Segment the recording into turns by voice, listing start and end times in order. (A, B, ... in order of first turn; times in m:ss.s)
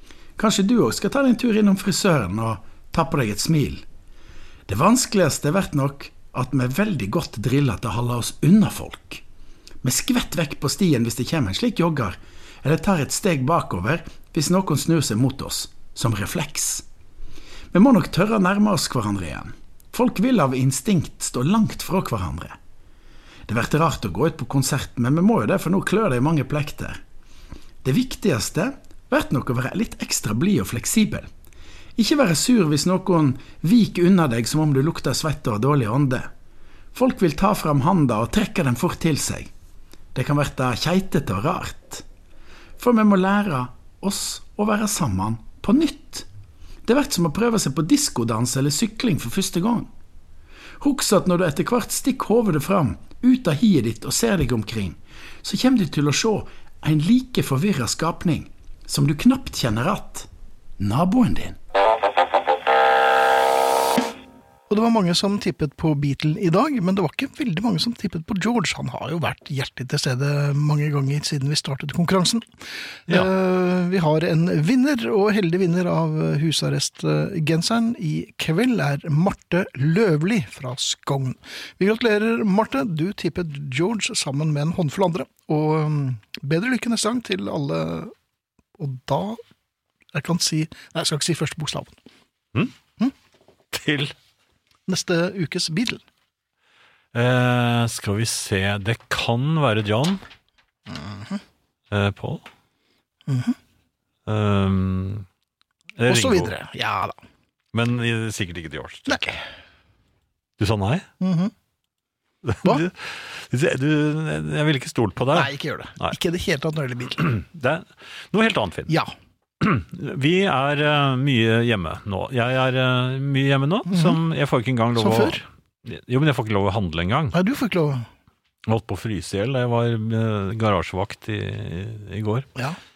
0:00.4-0:03.8 A
0:04.7-0:09.2 A
0:09.8-0:16.8 A
0:17.7-0:22.6 A
0:23.5-0:27.0 A
0:27.8-0:31.3 A
0:32.0-0:36.3 A
0:36.9-0:39.5 A
0:40.1-0:42.0 A
0:42.8-0:46.3 A
0:46.8-0:49.9 A
0:50.8-1:00.3 A
1:00.8-1:01.6 A
1:04.7-1:12.4 B
1:13.1-1:28.1 B
1:28.8-1:29.4 B
1:30.1-1:32.0 B
1:33.7-1:34.1 C
1:34.9-1:36.0 B
1:37.1-1:40.2 C
1:40.9-1:41.4 B
1:41.9-1:42.4 C
1:43.3-1:43.6 B
1:44.2-1:45.2 C
1:46.0-1:46.5 C
1:46.0-1:47.2 B
1:47.7-1:49.3 C
1:49.1-1:49.4 B
1:50.6-1:51.1 C
1:51.2-1:51.5 B
1:52.4-1:56.1 C
1:55.3-1:57.3 B
1:57.2-1:58.9 C
1:59.6-2:07.3 C
2:03.9-2:04.2 B
2:05.0-2:05.4 B
2:07.3-2:08.0 B
2:08.6-2:12.5 C